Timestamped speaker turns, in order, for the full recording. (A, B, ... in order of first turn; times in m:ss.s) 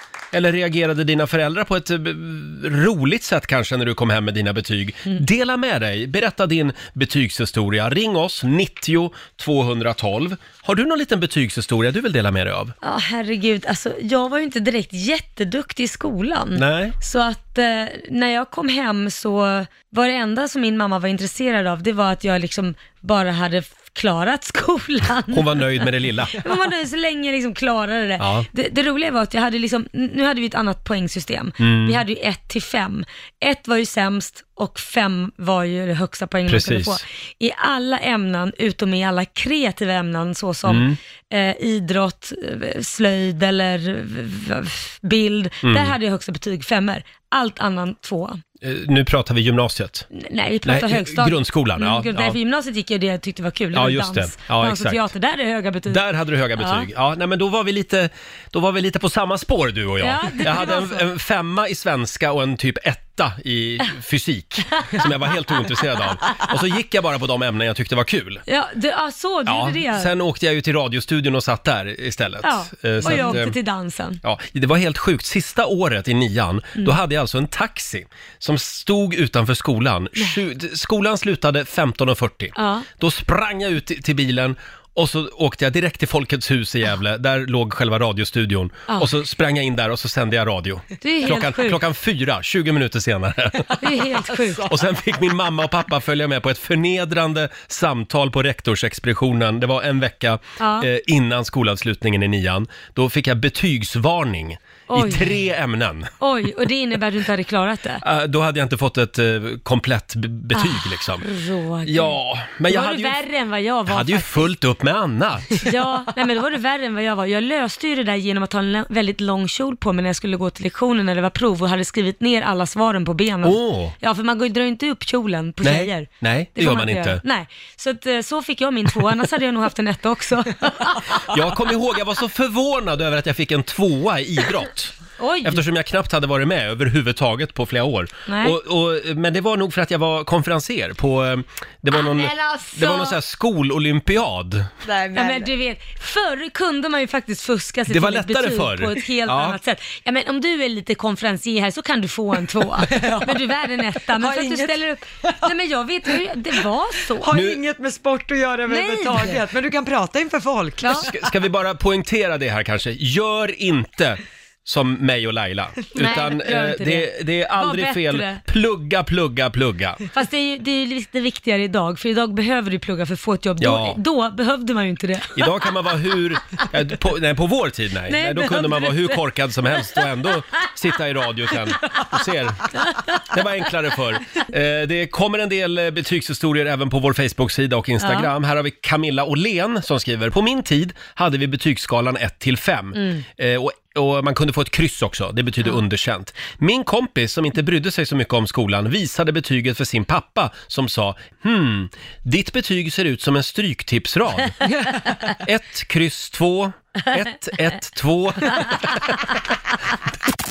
0:00.3-0:12.7 A
0:12.8-0:48.4 B
0:16.5-0:17.0 A
0:25.3-0:26.5 A
0:28.2-0:28.5 A
0:31.6-0:32.0 A
0:36.5-0:37.0 A
0:40.6-0:41.0 A
0:45.6-0:45.9 A
0:48.6-0:50.0 A
0:50.1-0:56.0 B
0:50.6-0:52.4 A
0:53.7-0:55.1 A
0:55.9-1:08.4 A
0:56.6-0:56.8 B
1:00.0-1:01.0 B
1:08.5-1:10.1 B
1:09.4-1:13.6 A
1:12.4-1:14.2 B
1:14.2-1:46.1 A
1:22.5-1:22.9 B
1:31.0-1:31.8 B
1:33.8-1:34.7 B
1:40.6-1:40.9 B
1:44.9-1:45.3 B
1:46.2-1:48.0 B
1:48.0-1:51.2 A
1:50.5-1:52.2 B
1:51.8-1:53.2 A
1:52.7-1:54.5 B
1:53.9-1:55.6 A
1:55.6-2:11.3 B
2:03.4-2:04.0 A
2:05.6-2:07.2 A
2:11.2-2:24.7 A
2:15.2-2:15.6 B
2:18.3-2:18.6 B
2:21.9-2:23.2 B
2:24.8-2:25.5 C
2:25.1-2:37.3 B
2:27.9-2:29.6 A
2:32.9-2:33.3 C
2:34.1-2:35.3 C
2:37.2-2:41.2 C
2:37.3-2:37.6 A
2:38.7-2:39.4 B
2:40.8-2:41.1 B
2:40.9-2:50.0 A
2:45.9-2:48.4 B
2:50.1-2:55.5 B
2:53.6-2:54.0 A
2:55.3-3:24.7 A
2:58.1-2:59.2 B
3:02.8-3:03.1 B
3:08.0-3:08.3 B
3:13.0-3:13.2 B
3:25.3-3:29.2 A